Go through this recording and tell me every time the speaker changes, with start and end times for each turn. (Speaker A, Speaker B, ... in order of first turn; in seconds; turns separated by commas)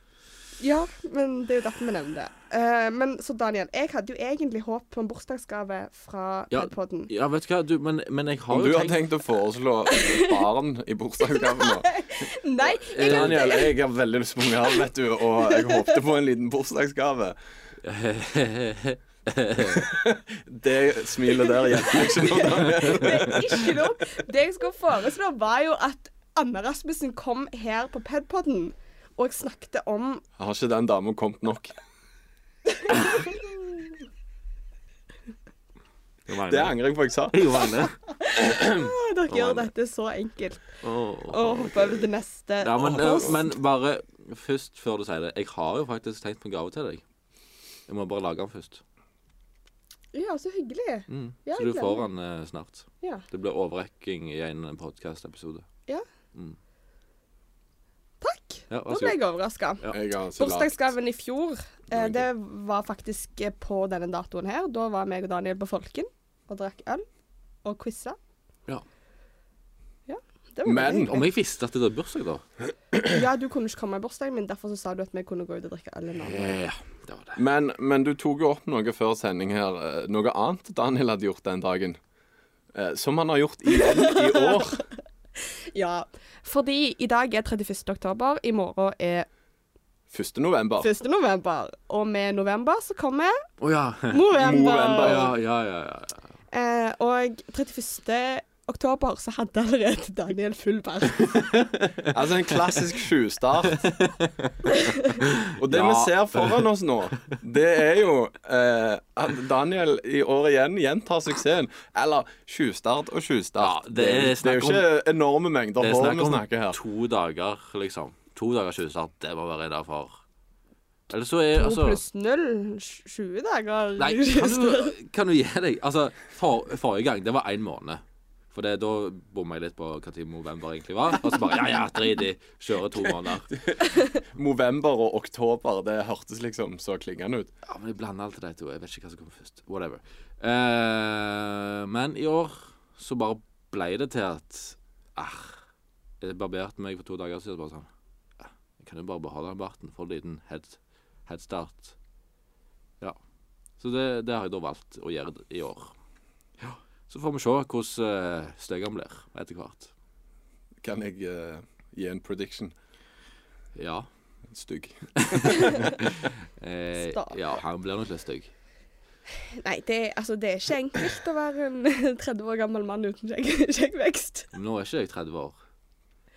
Speaker A: 0.6-7.1, Speaker B: 6.5-9.0, Speaker C: 8.5-12.0, Speaker A: 9.9-10.4, Speaker A: 11.2-13.7, Speaker C: 12.6-17.4, Speaker B: 12.9-13.5, Speaker A: 15.4-15.9, Speaker B: 17.8-19.9, Speaker C: 19.6-23.9, Speaker A: 21.5-30.2, Speaker B: 22.7-23.0, Speaker C: 30.4-31.8, Speaker A: 32.8-33.3, Speaker B: 36.3-39.6, Speaker C: 36.5-37.6, Speaker A: 38.1-40.7, Speaker B: 40.8-42.0, Speaker A: 41.3-43.5, Speaker B: 42.6-47.0, Speaker C: 42.8-43.3, Speaker B: 47.9-48.8, Speaker A: 50.1-52.0, Speaker B: 51.1-55.7, Speaker A: 58.2-67.0, Speaker B: 58.7-59.2, Speaker C: 59.9-60.9, Speaker A: 67.7-68.2, Speaker A: 70.1-71.2, Speaker C: 70.7-71.2, Speaker B: 71.0-72.4, Speaker A: 73.0-76.6, Speaker B: 76.2-77.4, Speaker C: 77.3-82.0, Speaker C: 82.7-84.8, Speaker A: 83.7-84.8, Speaker A: 85.4-89.3, Speaker C: 90.1-90.9, Speaker A: 90.8-93.5, Speaker B: 93.6-94.3, Speaker A: 94.1-95.3, Speaker C: 94.3-95.3, Speaker B: 95.0-96.3, Speaker A: 96.5-101.7, Speaker C: 102.0-103.8, Speaker B: 103.8-104.5, Speaker A: 104.7-105.2, Speaker B: 105.2-106.7, Speaker C: 105.5-116.8, Speaker B: 113.6-114.9, Speaker B: 115.8-120.2, Speaker B: 121.1-122.0, Speaker A: 121.5-124.9, Speaker B: 124.0-133.6, Speaker C: 133.5-137.5, Speaker B: 137.7-145.6, Speaker B: 146.2-147.9, Speaker B: 148.4-151.9, Speaker B: 153.8-155.9, Speaker B: 156.6-159.9, Speaker C: 160.8-162.7, Speaker B: 163.8-164.1, Speaker C: 164.5-166.1, Speaker B: 165.2-168.5, Speaker A: 165.5-165.9, Speaker A: 167.0-167.4, Speaker A: 169.4-174.5, Speaker B: 174.5-175.6